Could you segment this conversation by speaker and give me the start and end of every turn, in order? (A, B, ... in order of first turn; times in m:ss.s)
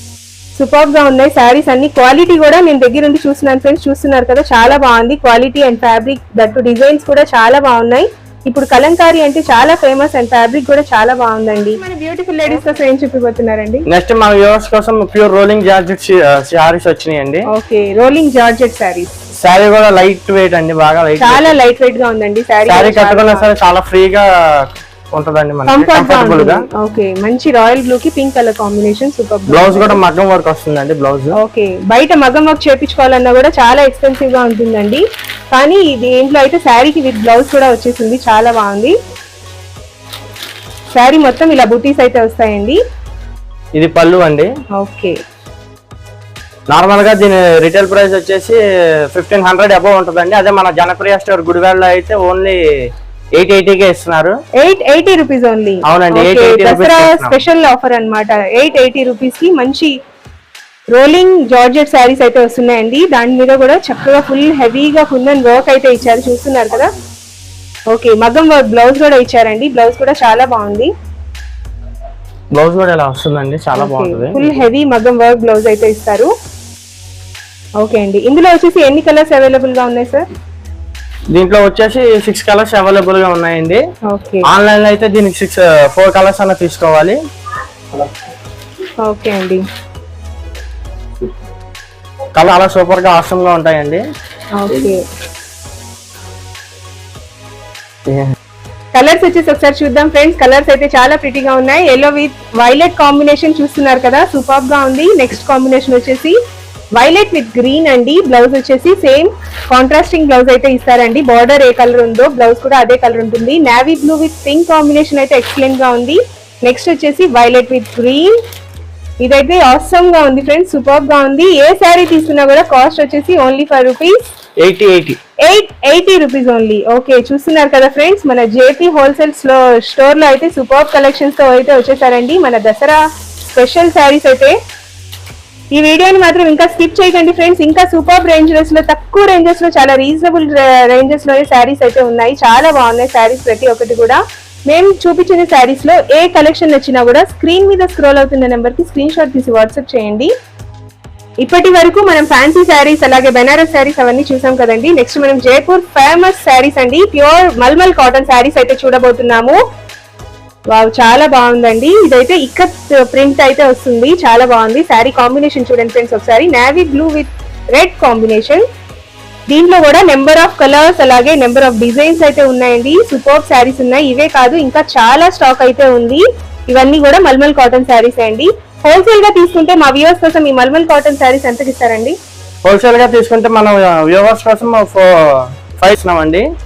0:00.6-0:13.8 A
0:13.9-0:17.5 B
0:17.5-0:19.1 A
0:19.4-0:21.6 B
0:21.2-0:23.5 A
0:22.6-0:26.6 B
0:25.7-0:30.0 A
0:29.5-0:31.3 B
0:31.4-0:38.9 A
0:40.9-0:42.8 A
0:43.8-0:44.5 B
0:44.8-0:45.1 A
0:46.7-0:48.6 B
0:49.1-0:52.6 B
0:53.4-0:54.4 B
0:54.6-0:59.9 A
0:55.9-0:57.4 B
1:00.9-1:06.9 A
1:07.9-1:10.9 A
1:12.5-1:14.6 B
1:14.0-1:16.3 A
1:17.8-1:20.2 A
1:21.3-1:23.8 B
1:24.1-1:24.4 A
1:24.5-1:27.2 B
1:29.0-1:29.6 A
1:32.4-1:34.0 B
1:34.6-1:35.0 A
1:38.1-1:38.3 B
1:38.9-1:46.4 A
1:47.0-1:58.3 A
1:59.2-2:04.2 A
2:04.6-2:05.2 B
2:05.4-2:14.6 A
2:15.7-2:30.3 A
2:31.4-2:39.6 A
2:40.7-2:48.6 A
2:49.5-3:02.1 A
3:02.6-3:06.4 B